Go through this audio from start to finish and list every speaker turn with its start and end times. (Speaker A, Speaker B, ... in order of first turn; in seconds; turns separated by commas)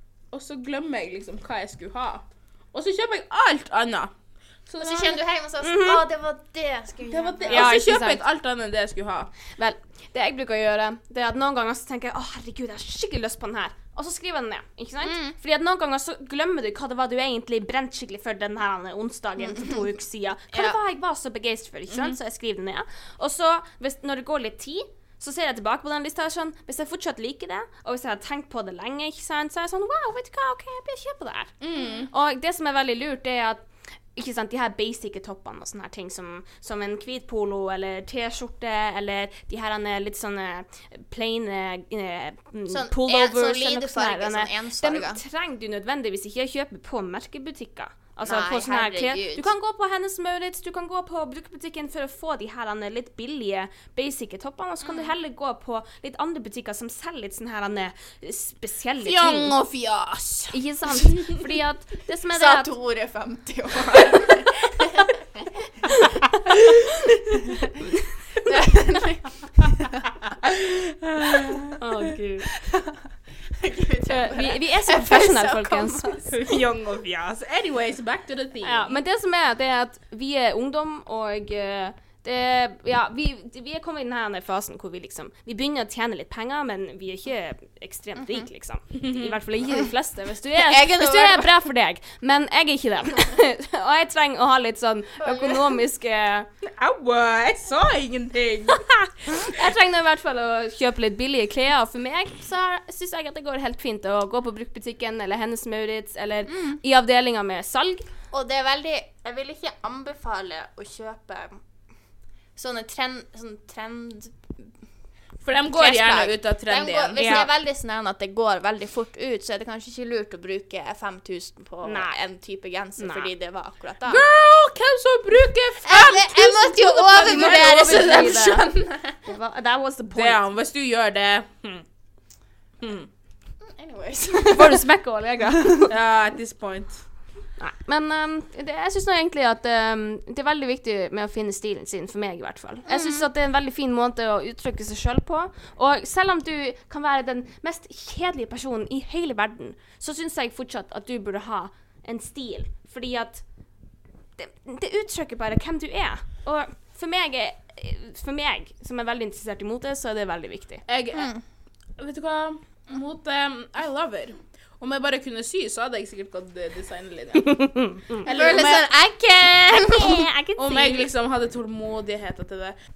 Speaker A: 0.3-4.1, Speaker A: 4.7-5.2, Speaker B: 4.8-7.8, Speaker C: 5.6-6.0, Speaker A: 7.1-9.3, Speaker C: 7.5-8.2, Speaker C: 9.6-31.5, Speaker B: 15.0-15.3, Speaker B: 19.4-19.9, Speaker B: 20.5-20.8, Speaker A: 31.6-32.1, Speaker C: 32.1-59.5, Speaker B: 42.7-45.2, Speaker B: 48.2-49.5, Speaker B: 54.8-55.1, Speaker A: 59.1-60.5, Speaker C: 60.5-62.7, Speaker B: 62.3-66.1, Speaker B: 67.3-67.8, Speaker B: 68.4-70.0, Speaker A: 70.4-71.8, Speaker C: 71.8-72.5, Speaker B: 72.5-76.2, Speaker C: 74.1-76.3, Speaker A: 76.2-79.0, Speaker C: 78.6-96.5, Speaker A: 89.0-89.4, Speaker B: 90.5-91.5, Speaker B: 95.2-95.6, Speaker A: 96.7-98.9, Speaker C: 98.8-108.1, Speaker B: 108.3-111.6, Speaker B: 112.6-114.7, Speaker A: 115.4-117.5, Speaker B: 115.7-124.2, Speaker C: 117.2-117.5, Speaker C: 121.8-122.2, Speaker C: 123.0-123.3, Speaker A: 124.1-128.2, Speaker B: 125.8-129.2, Speaker C: 127.1-128.7, Speaker C: 129.2-130.4, Speaker A: 130.2-131.8, Speaker A: 132.8-133.1, Speaker B: 133.6-134.9, Speaker C: 134.5-135.9, Speaker A: 135.9-137.0, Speaker C: 137.6-153.4, Speaker B: 142.9-143.3, Speaker C: 154.4-160.8, Speaker A: 160.9-161.3, Speaker B: 161.1-161.4, Speaker A: 162.0-168.9, Speaker C: 167.4-168.2, Speaker B: 168.3-170.3, Speaker C: 169.8-171.1, Speaker A: 170.2-172.8